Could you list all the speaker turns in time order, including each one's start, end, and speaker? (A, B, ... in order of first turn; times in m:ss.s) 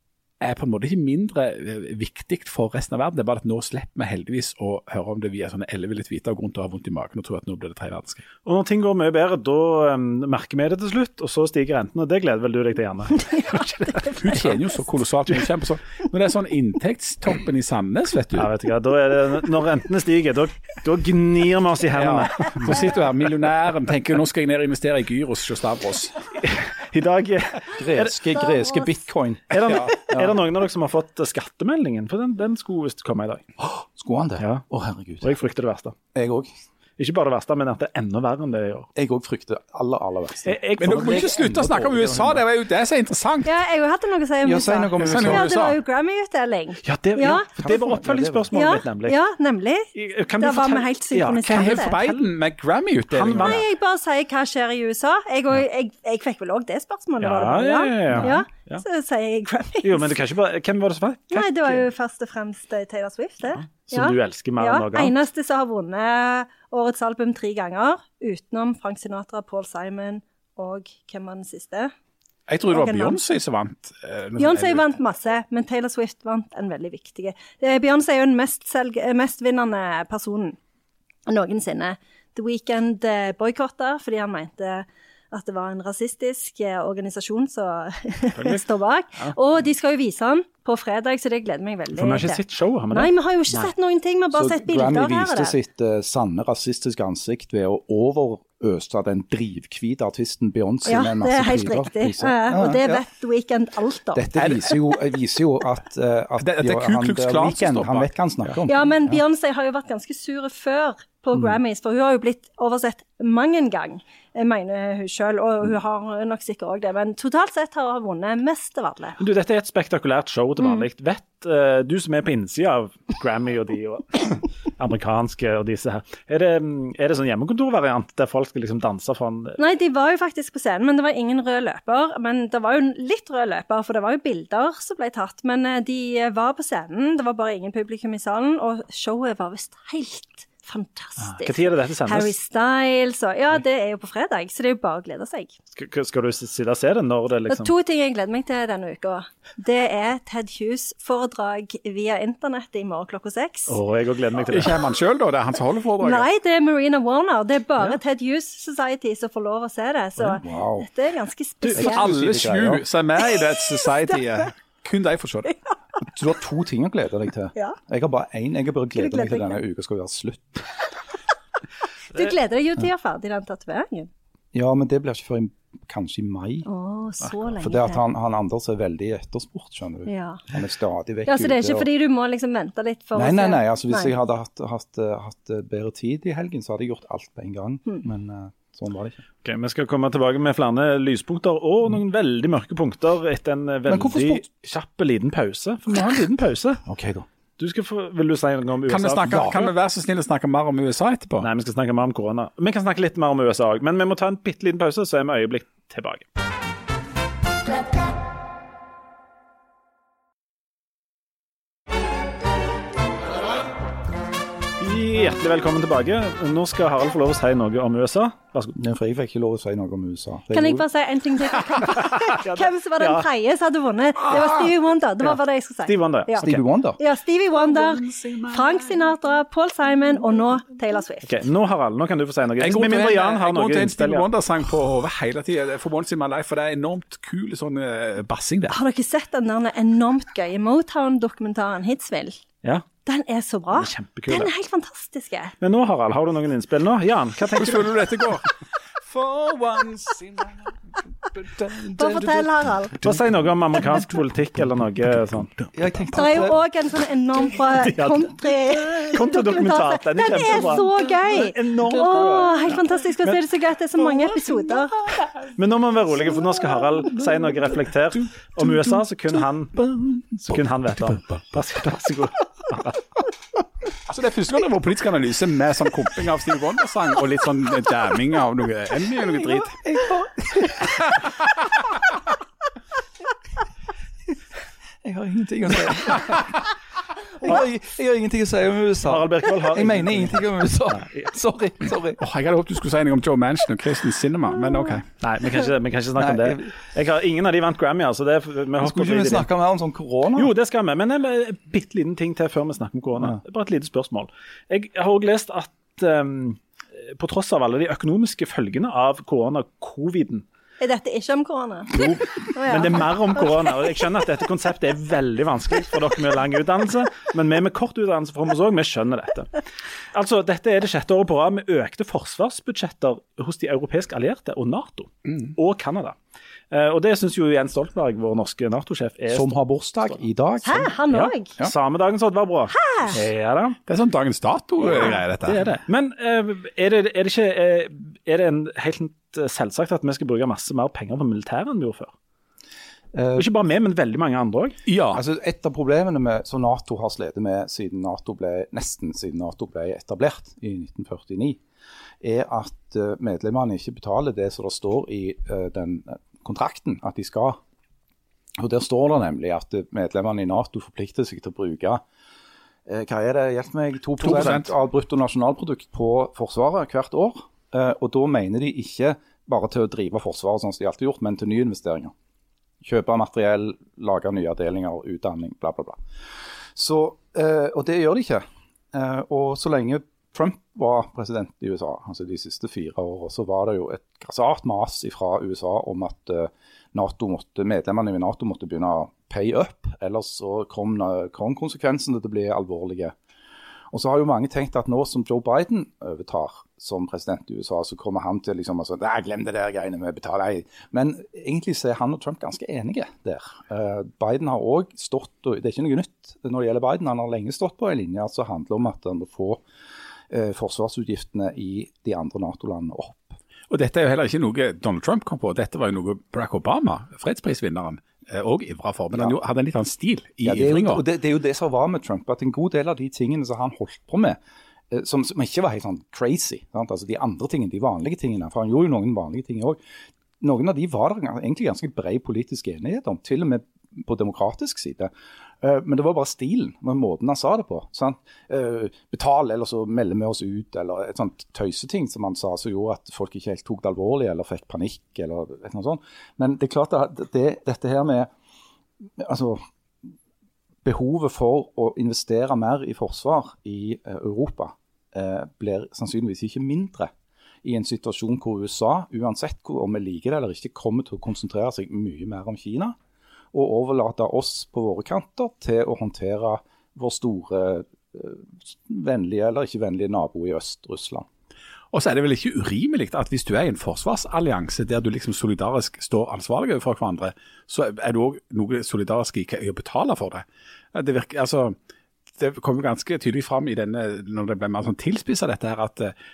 0:00.4-0:08.2 A
0:08.4-0:14.5 B
0:14.1-0:18.5 A
0:18.4-0:22.9 B
0:22.0-0:26.3 A
0:26.4-0:28.2 B
0:27.7-0:30.4 C
0:29.5-0:33.5 B
0:33.7-0:35.3 C
0:34.4-0:34.6 B
0:35.2-0:36.0 B
0:36.1-0:36.5 C
0:37.0-0:38.9 B
0:39.0-0:42.4 C
0:40.5-0:41.3 B
0:40.8-0:43.6 A
0:43.4-0:47.5 D
0:44.4-0:45.8 C
0:45.0-0:45.8 A
0:46.8-0:49.2 B
0:47.6-0:48.5 C
0:48.5-0:49.9 D
0:49.9-0:52.3 B
0:50.4-0:52.0 D
0:51.4-0:53.6 A
0:53.1-0:53.6 B
0:53.4-1:00.2 D
0:57.2-0:58.8 B
0:59.8-1:01.9 B
1:01.3-1:11.9 D
1:03.7-1:05.2 B
1:12.5-1:14.8 A
1:12.7-1:13.2 D
1:14.4-1:20.6 D
1:21.3-1:32.4 D
1:28.4-1:28.6 B
1:31.9-1:33.7 B
1:32.9-1:35.6 D
1:34.3-1:43.0 C
1:40.9-1:44.3 D
1:44.1-1:49.2 C
1:46.4-1:48.1 A
1:48.7-1:59.2 D
1:59.2-2:09.6 B
2:09.6-2:25.6 D
2:21.2-2:22.3 B
2:25.8-2:27.7 B
2:27.5-2:33.8 D
2:33.7-2:34.8 B
2:34.5-2:36.3 A
2:36.0-2:42.0 D
2:40.2-2:40.9 C
2:41.7-2:45.5 A
2:41.8-2:42.8 C
2:46.1-2:50.7 C
2:49.0-2:49.6 D
2:52.1-2:54.1 D
2:54.5-2:56.7 C
2:56.6-2:58.0 D
2:57.6-3:01.9 C
3:00.1-3:00.4 D
3:01.3-3:04.1 D
3:03.2-3:09.2 C
3:09.4-3:16.8 B
3:13.9-3:14.4 C
3:16.9-3:17.3 C
3:17.6-3:19.7 B
3:18.9-3:21.5 A
3:19.3-3:19.6 C
3:21.4-3:26.3 B
3:34.8-3:38.8 B
3:38.8-3:40.8 C
3:40.5-3:51.4 D
3:41.8-3:43.3 B
3:45.2-3:46.6 B
3:46.4-3:47.0 C
3:48.0-3:48.6 A
3:51.2-3:54.3 B
3:52.6-3:58.8 A
3:58.7-4:02.4 D
4:03.0-4:05.5 D
4:03.7-4:04.5 B
4:05.6-4:08.3 B
4:07.6-4:08.5 A
4:09.1-4:10.5 A
4:11.3-4:12.5 A
4:12.0-4:13.0 D
4:13.0-4:15.5 B
4:15.7-4:16.6 C
4:16.1-4:25.0 D
4:18.0-4:23.4 B
4:22.0-4:22.6 C
4:25.5-4:29.9 B
4:30.4-4:33.0 B
4:34.1-4:39.8 A
4:39.7-4:41.0 C
4:40.8-4:41.6 A
4:45.0-4:46.6 C
4:47.3-4:52.2 C
4:49.0-4:51.3 B
4:52.2-4:55.1 A
4:55.2-4:59.5 B
4:56.2-4:56.7 C
4:58.8-5:00.5 C
5:00.4-5:10.4 B
5:10.8-5:13.1 D
5:12.0-5:26.2 B
5:26.7-5:29.6 B
5:29.3-5:31.0 C
5:30.6-5:31.5 D
5:31.1-5:33.8 B
5:32.7-5:33.2 D
5:33.9-5:35.8 A
5:34.8-5:42.1 B
5:43.1-5:43.5 C
5:43.4-5:44.8 B
5:44.9-5:45.2 A
5:45.1-5:51.6 C
5:52.2-5:57.6 C
5:58.6-6:02.0 C
6:02.9-6:12.1 C
6:04.2-6:04.7 A
6:12.8-6:16.0 C
6:16.8-6:33.2 C
6:33.9-6:49.6 C
6:50.3-6:53.4 C
6:53.7-7:01.0 A
7:00.4-7:04.4 C
7:04.9-7:09.8 C
7:10.4-7:15.1 C
7:15.6-7:28.3 C
7:29.2-7:29.6 C
7:30.8-7:37.1 C
7:37.6-7:43.0 C
7:43.5-7:51.3 C
7:51.9-8:01.8 A
8:02.4-8:06.1 A